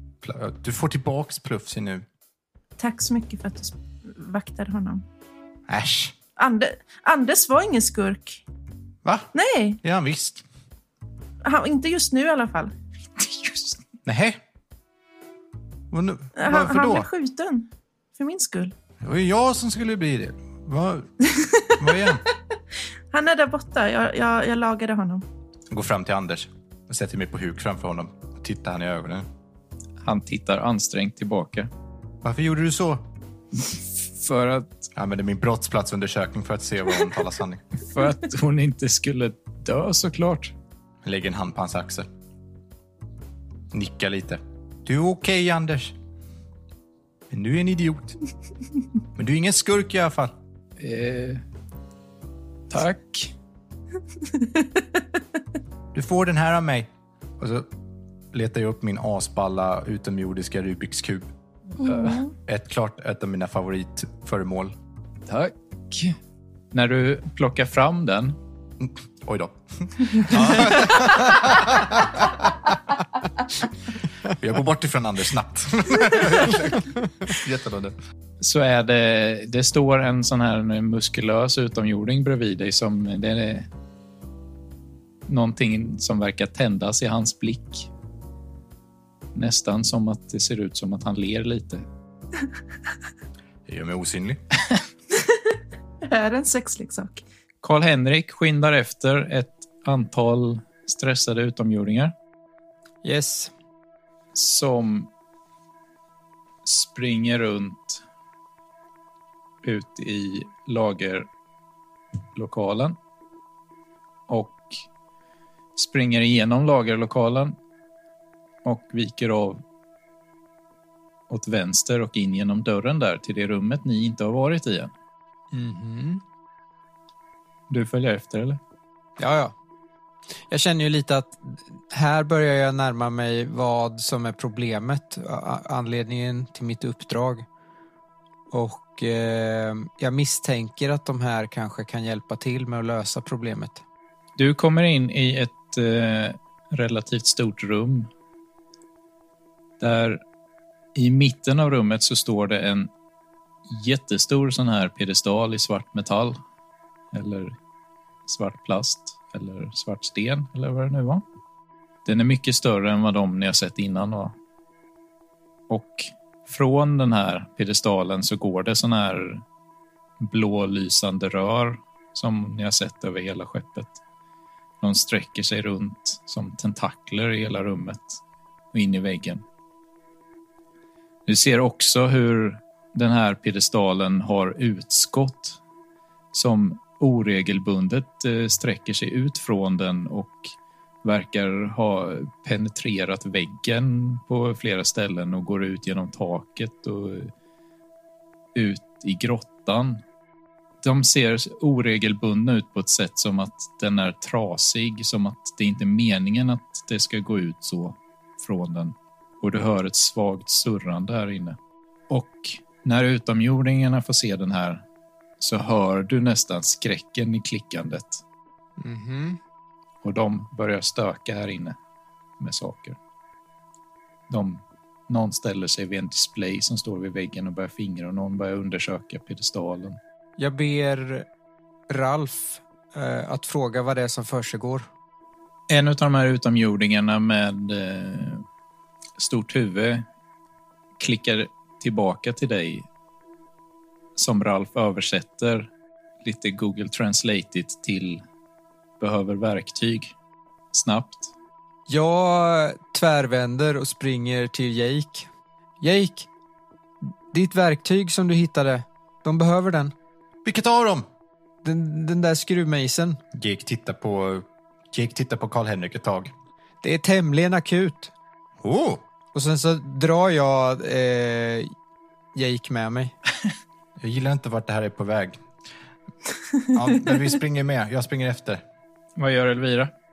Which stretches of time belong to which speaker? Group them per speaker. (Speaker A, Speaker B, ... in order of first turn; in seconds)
Speaker A: 0.2-2.0, 5.7-6.1, 9.0-9.3, 9.8-10.4, 14.0-14.4, 15.9-17.1, 19.0-22.2, 25.7-29.2, 32.2-33.1, 34.9-37.6, 41.0-42.1, 43.7-46.0, 47.3-48.2, 49.1-50.3, 55.9-57.7, 58.3-61.3, 61.8-64.7, 68.8-72.9, 74.2-77.9, 93.7-94.4, 260.4-261.0, 263.3-266.3, 268.6-269.0, 274.0-275.4, 276.7-278.6
Speaker B: 2.8-5.0, 6.4-8.4, 9.3-9.8, 11.4-12.7, 16.4-18.7, 21.3-22.1, 23.1-25.2, 61.9-62.2, 95.2-97.2
Speaker C: 30.0-31.7, 33.5-34.9, 37.8-40.5, 50.8-51.4, 52.7-53.3, 65.3-66.2, 66.7-68.4, 78.4-83.7, 85.3-87.9, 89.3-91.8, 97.6-102.1, 104.3-105.1, 106.6-108.0, 109.6-111.3, 112.3-113.0, 114.3-114.8, 115.8-117.5, 118.6-119.6, 121.3-124.9, 127.7-128.6, 144.3-148.1, 149.8-150.2, 150.9-152.9, 153.7-156.4, 157.1-157.5, 158.2-161.2, 162.0-164.3, 165.7-169.4, 170.2-174.0, 174.8-178.2, 178.7-179.4, 181.2-185.6, 186.3-197.3, 198.5-200.0, 200.8-211.6, 212.1-214.8, 215.4-218.2, 220.0-221.8, 222.4-223.0, 224.3-230.0, 235.7-238.4, 239.2-240.0, 241.0-242.9, 244.2-245.7, 246.2-248.2, 249.0-250.1, 250.7-251.3, 279.2-279.9
Speaker D: 103.0-103.5, 125.5-126.2, 129.2-129.5, 130.5-137.4, 138.5-143.8, 218.8-219.4, 230.4-231.2, 231.9-234.9, 251.9-255.3, 255.8-256.3, 257.3-259.9, 261.6-263.2, 266.8-268.1, 269.3-271.7, 272.3-273.1